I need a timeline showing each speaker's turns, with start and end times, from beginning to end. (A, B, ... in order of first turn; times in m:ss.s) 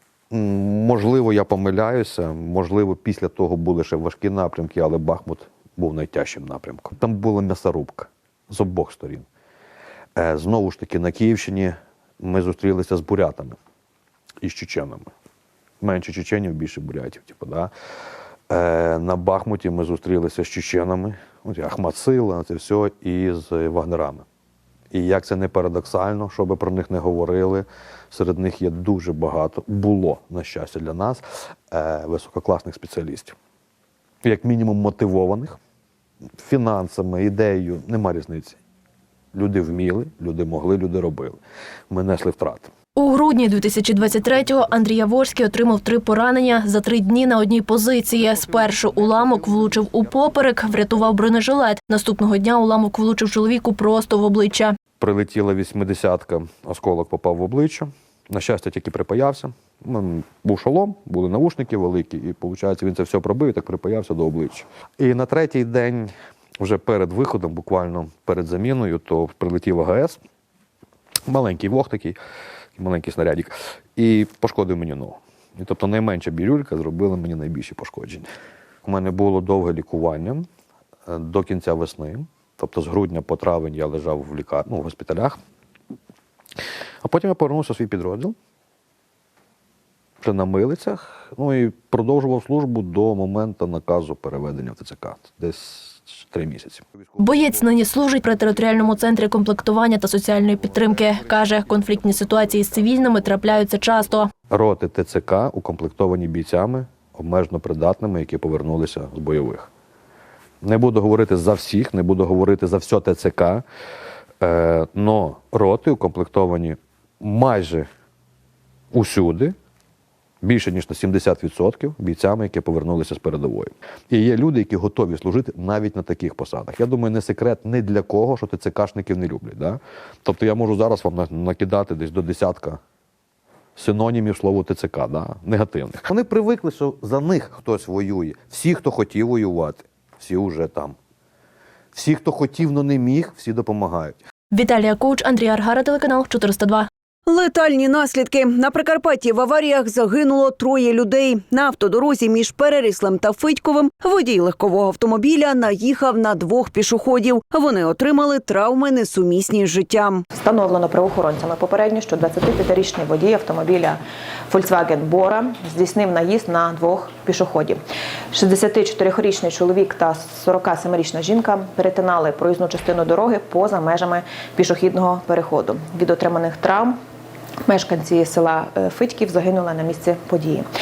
0:00.3-0:09.2 A
0:10.2-0:13.6 A
0:14.4-0:15.1 A
0:15.8-0:17.7 A
0:18.5-0:24.2 A
0:24.9-0:33.4 A
0:34.2-0:35.6 A
0:36.4-0:38.6 A
0:39.3-0:42.7 A
0:43.0-0:54.8 B
0:55.0-1:10.2 A
1:11.3-1:12.2 A
1:12.8-1:18.3 A
1:18.8-1:20.5 A
1:21.1-1:25.4 A
1:27.0-1:28.4 A
1:30.2-1:36.9 A
1:37.2-1:44.3 B
1:44.5-1:49.7 A
1:50.6-1:53.6 A
1:54.4-1:57.9 A
1:58.9-1:59.6 A
2:00.4-2:12.8 A
2:13.8-2:21.0 A
2:22.0-2:24.2 A
2:24.5-2:26.9 B
2:27.3-2:40.2 C
2:40.4-2:47.8 D
2:48.3-2:57.0 D
2:57.7-3:00.7 D